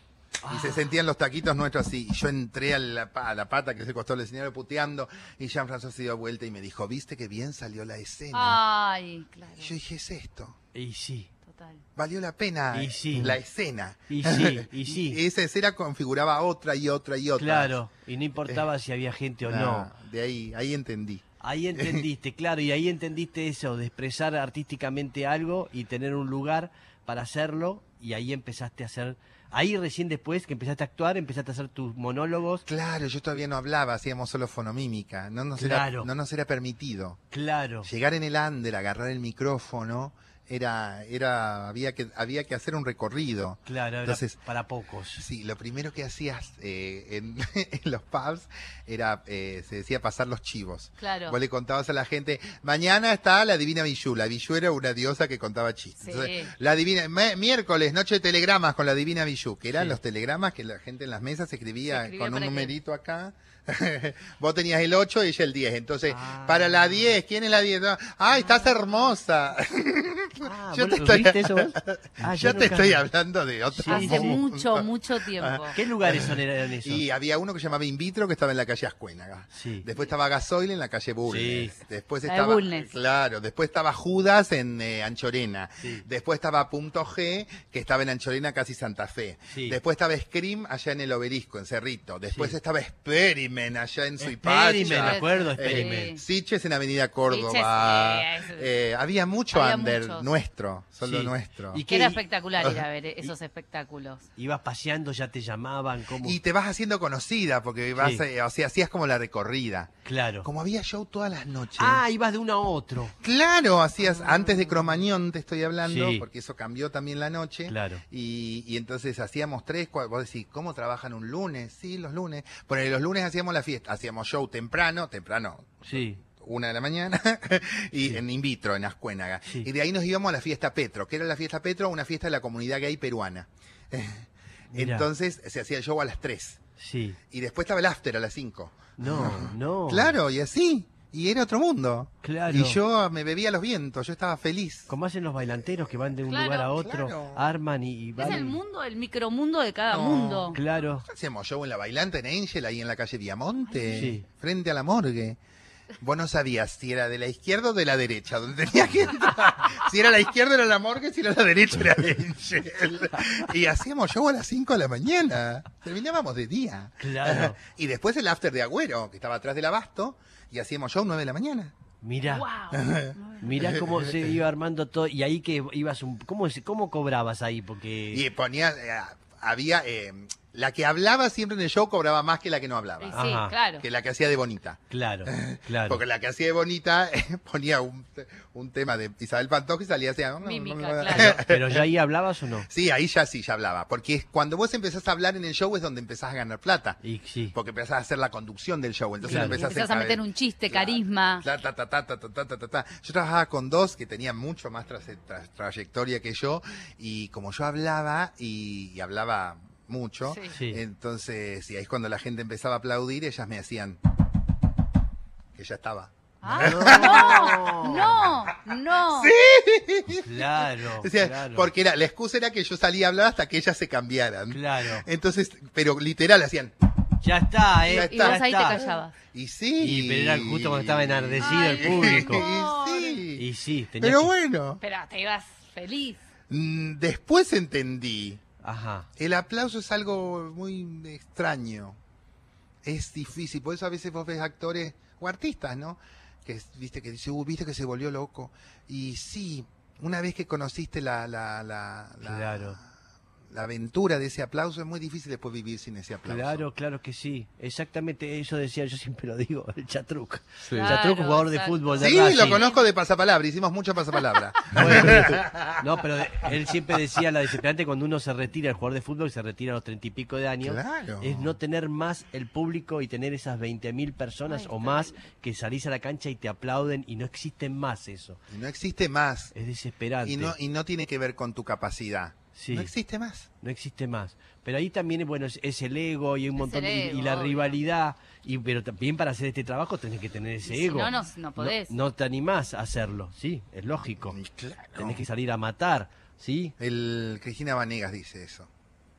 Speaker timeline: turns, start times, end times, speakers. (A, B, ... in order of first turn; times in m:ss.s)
0:00.4-0:00.9 A
0:00.5-0:08.6 B
0:08.3-0:09.7 C
0:09.6-0:10.6 B
0:10.7-0:11.3 A
0:11.5-0:11.8 C
0:12.0-0:17.8 B
0:12.7-0:13.4 A
0:14.1-0:15.2 A
0:17.4-0:19.9 A
0:19.5-0:22.1 B
0:21.4-0:32.6 A
0:32.7-0:37.2 B
0:35.6-0:36.1 A
0:37.3-0:37.9 A
0:37.8-0:44.4 B
0:43.7-0:45.2 A
0:45.2-1:41.8 B
0:51.0-0:51.4 C
0:56.0-0:56.5 C
1:01.9-1:02.7 C
1:06.1-1:07.1 A
1:10.4-1:13.1 A
1:13.7-1:14.4 A
1:13.9-1:15.8 C
1:15.7-1:17.0 A
1:19.5-1:19.9 A
1:21.3-1:21.7 A
1:22.3-1:22.9 C
1:29.5-1:29.8 A
1:34.2-1:36.1 A
1:34.8-1:36.2 C
1:37.3-1:38.7 C
1:39.5-1:40.3 C
1:41.0-1:42.2 A
1:41.9-1:44.3 C
1:44.4-1:46.4 A
1:46.2-1:52.0 B
1:48.0-1:48.2 A
1:50.0-1:50.5 A
1:51.8-1:53.2 A
1:53.2-2:16.6 B
1:55.8-1:56.2 A
1:57.7-1:58.0 A
2:05.8-2:06.2 A
2:14.7-2:15.1 A
2:16.8-2:17.2 A
2:17.3-2:24.9 B
2:19.0-2:20.2 A
2:22.2-2:22.8 A
2:24.9-2:28.6 A
2:25.5-2:26.2 B
2:26.3-2:26.7 C
2:26.7-2:27.5 B
2:28.2-2:30.6 C
2:28.2-2:28.5 B
2:29.9-2:35.4 B
2:30.5-2:31.1 A
2:33.7-2:34.1 C
2:34.0-2:34.3 A
2:36.0-2:51.7 B
2:47.0-2:47.6 A
2:52.0-2:52.5 A
2:52.3-2:53.6 C
2:52.7-2:54.4 B
2:53.4-2:58.2 A
2:58.1-3:11.9 B
3:03.0-3:03.8 C
3:03.1-3:03.5 A
3:04.9-3:06.0 A
3:10.4-3:11.4 C
3:11.1-3:12.7 A
3:12.7-3:17.0 B
3:17.0-3:17.6 A
3:17.5-3:34.0 B
3:19.2-3:21.4 C
3:19.3-3:19.6 A
3:30.3-3:30.5 C
3:30.5-3:30.8 A
3:35.6-3:38.6 B
3:36.4-3:39.3 C
3:36.4-3:38.2 A
3:39.1-3:46.7 B
3:40.1-3:41.7 A
3:44.5-3:45.1 A
3:47.2-3:48.8 A
3:47.8-3:53.5 B
3:47.9-3:49.2 C
3:49.8-3:52.5 A
3:51.4-3:53.2 C
3:53.4-3:54.3 A
3:54.0-3:54.8 B
3:54.8-3:56.2 C
3:56.5-3:58.4 B
3:58.6-3:59.1 A
3:59.2-4:02.0 B
4:02.8-4:12.8 B
4:12.2-4:12.8 A
4:13.5-4:16.7 B
4:16.3-4:22.6 A
4:20.8-4:22.8 C
4:22.0-4:25.8 B
4:24.7-4:38.4 A
4:30.6-4:31.6 B
4:34.5-4:35.1 C
4:38.5-4:39.5 B
4:39.6-4:40.6 A
4:40.2-4:43.5 B
4:42.6-4:42.9 A
4:43.6-4:54.4 A
4:46.6-4:47.8 C
4:50.7-4:51.9 C
4:54.2-4:55.2 B
4:55.0-4:56.8 A
4:56.8-4:58.7 B